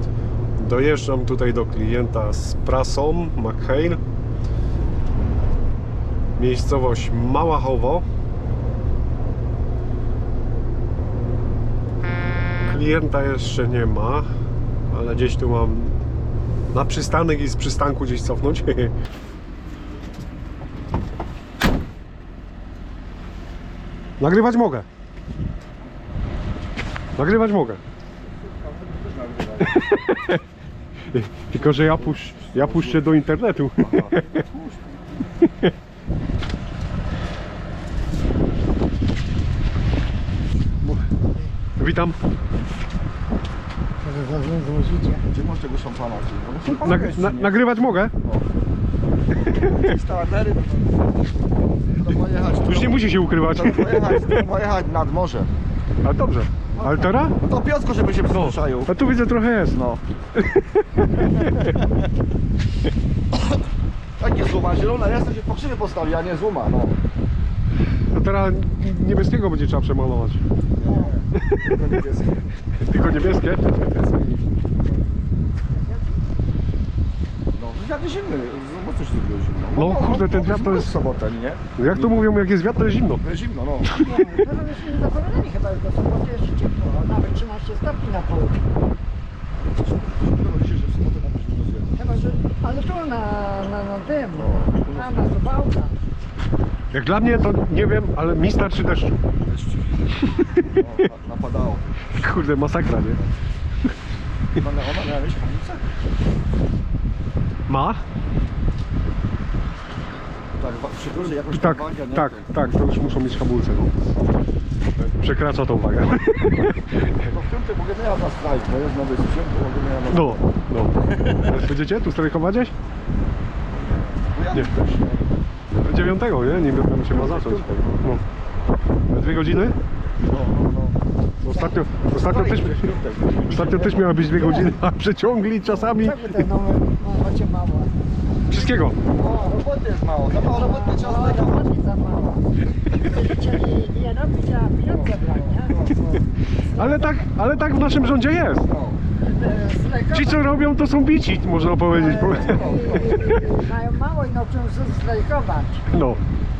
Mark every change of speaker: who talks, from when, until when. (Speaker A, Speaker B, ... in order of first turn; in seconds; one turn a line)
Speaker A: 0.6-4.0
Speaker A: 6.4-8.1
Speaker A: 12.6-14.3
Speaker A: 14.9-15.9
Speaker A: 16.7-18.9
Speaker A: 24.2-24.9
Speaker A: 27.2-27.8
Speaker B: 28.4-29.9
Speaker A: 31.1-34.2
Speaker B: 31.5-33.2
Speaker B: 33.8-35.2
Speaker A: 41.8-42.2
Speaker C: 44.0-45.2
Speaker B: 45.3-47.7
Speaker A: 46.6-48.1
Speaker B: 48.2-48.6
Speaker B: 49.4-51.2
Speaker B: 51.9-55.5
Speaker A: 52.6-54.4
Speaker A: 56.0-57.4
Speaker B: 56.7-59.0
Speaker A: 58.3-59.8
Speaker B: 59.7-60.0
Speaker A: 60.4-61.8
Speaker B: 61.4-61.8
Speaker B: 64.2-67.0
Speaker A: 68.1-70.4
Speaker B: 70.8-72.5
Speaker C: 70.8-71.1
Speaker A: 72.8-73.7
Speaker B: 73.0-75.3
Speaker C: 75.7-76.2
Speaker B: 77.5-82.3
Speaker A: 79.7-80.9
Speaker A: 81.8-83.2
Speaker B: 83.1-84.0
Speaker C: 84.0-88.7
Speaker B: 89.7-92.2
Speaker C: 92.0-96.0
Speaker B: 94.3-95.5
Speaker A: 96.9-99.2
Speaker B: 99.4-100.1
Speaker A: 100.3-100.8
Speaker B: 100.6-102.2
Speaker A: 102.1-103.2
Speaker B: 103.0-103.3
Speaker B: 104.5-105.8
Speaker A: 107.7-108.0
Speaker B: 110.5-113.0
Speaker A: 111.3-113.9
Speaker A: 115.1-117.1
Speaker B: 116.9-121.6
Speaker A: 120.1-122.7
Speaker B: 123.8-125.3
Speaker A: 125.8-128.2
Speaker B: 127.1-128.1
Speaker A: 129.1-129.8
Speaker B: 130.1-131.0
Speaker A: 131.4-132.9
Speaker C: 131.5-131.8
Speaker B: 132.1-134.3
Speaker A: 133.5-136.4
Speaker C: 134.2-134.8
Speaker B: 135.6-135.9
Speaker C: 136.0-137.9
Speaker A: 138.5-139.0
Speaker B: 139.1-142.4
Speaker C: 139.2-139.5
Speaker C: 140.5-147.2
Speaker B: 144.9-146.1
Speaker A: 146.8-148.7
Speaker B: 148.6-149.0
Speaker C: 149.2-150.6
Speaker A: 150.1-153.0
Speaker C: 151.9-155.8
Speaker B: 152.0-153.5
Speaker A: 155.9-156.2